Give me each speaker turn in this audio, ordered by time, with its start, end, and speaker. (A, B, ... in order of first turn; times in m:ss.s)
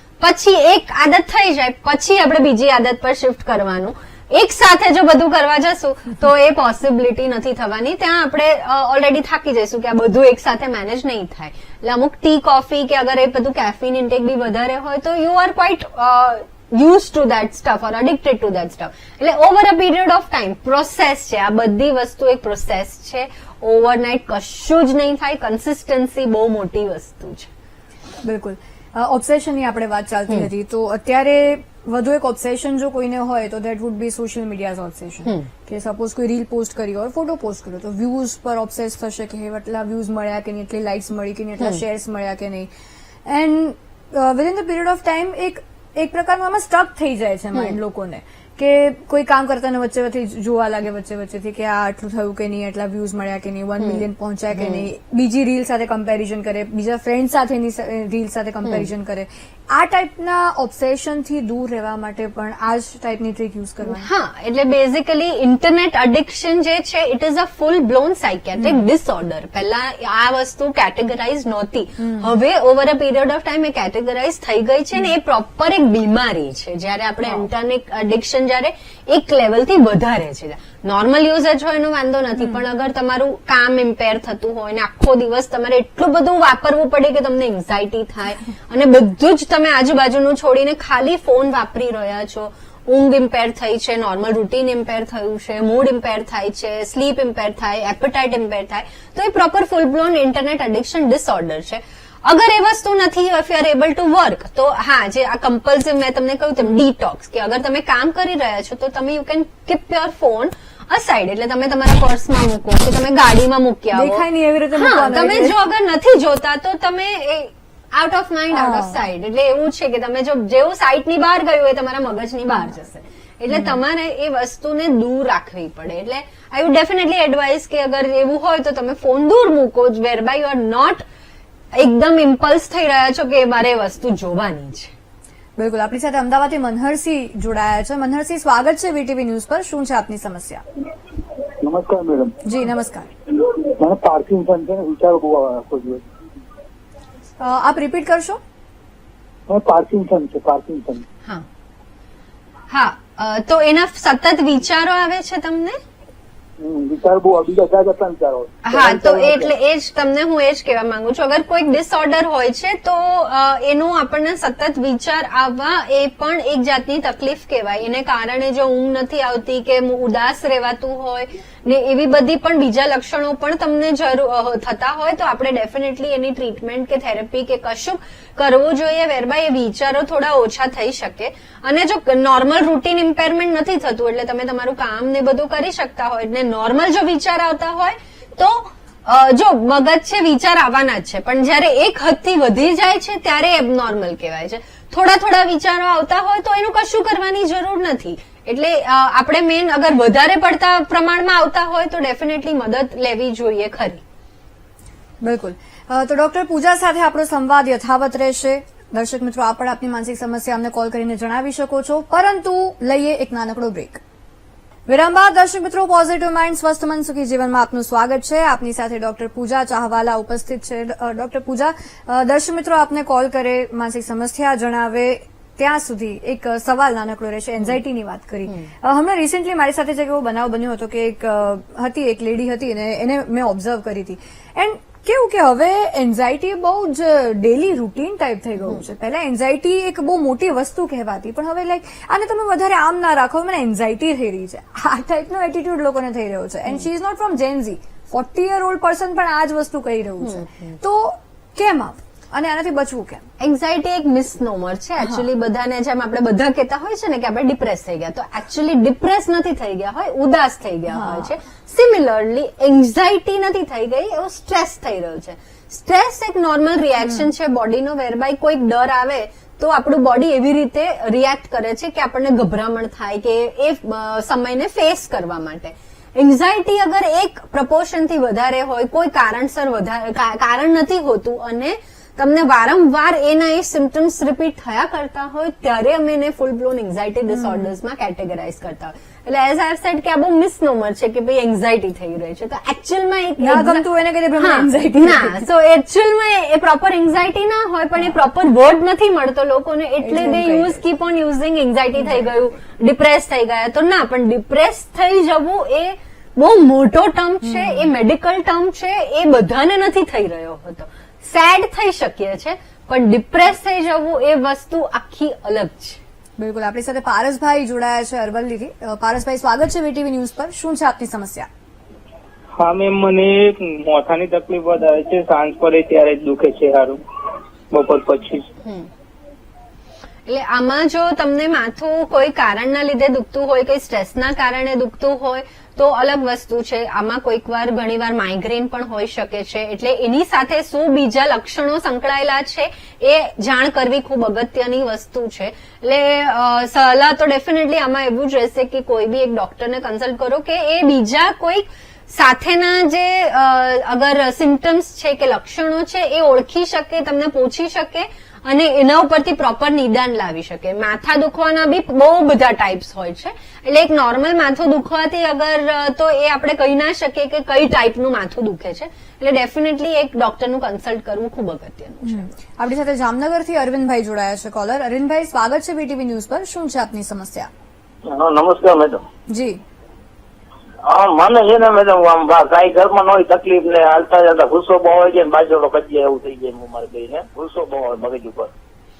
0:00.2-0:27.5 A
0:28.2-0:42.7 B
0:43.2-1:04.1 B
0:54.6-0:54.8 A
1:03.8-1:54.2 A
1:12.0-1:12.3 B
1:53.9-1:55.6 B
1:54.7-2:11.0 A
1:58.5-1:59.0 B
2:03.5-2:03.8 B
2:11.7-2:14.9 A
2:15.6-2:20.6 B
2:21.6-2:22.4 C
2:22.4-2:23.1 B
2:23.8-2:26.0 C
2:27.4-2:28.4 B
2:29.5-2:31.0 C
2:32.7-2:35.8 A
2:36.6-2:39.5 C
2:38.6-3:24.0 A
3:25.2-3:34.0 B
3:34.9-4:13.2 B
4:10.2-4:10.8 A
4:13.4-4:53.8 A
4:20.9-4:21.3 B
4:27.0-4:27.3 B
4:47.3-4:47.7 B
4:53.4-4:55.4 B
4:54.4-5:16.0 A
5:00.0-5:00.8 B
5:07.4-5:07.9 B
5:16.4-5:21.5 B
5:22.6-5:27.0 D
5:27.7-5:28.5 D
5:28.6-5:28.9 A
5:30.3-6:12.3 A
6:12.0-6:17.5 B
6:18.0-6:19.0 E
6:19.3-6:19.6 B
6:20.8-6:28.5 E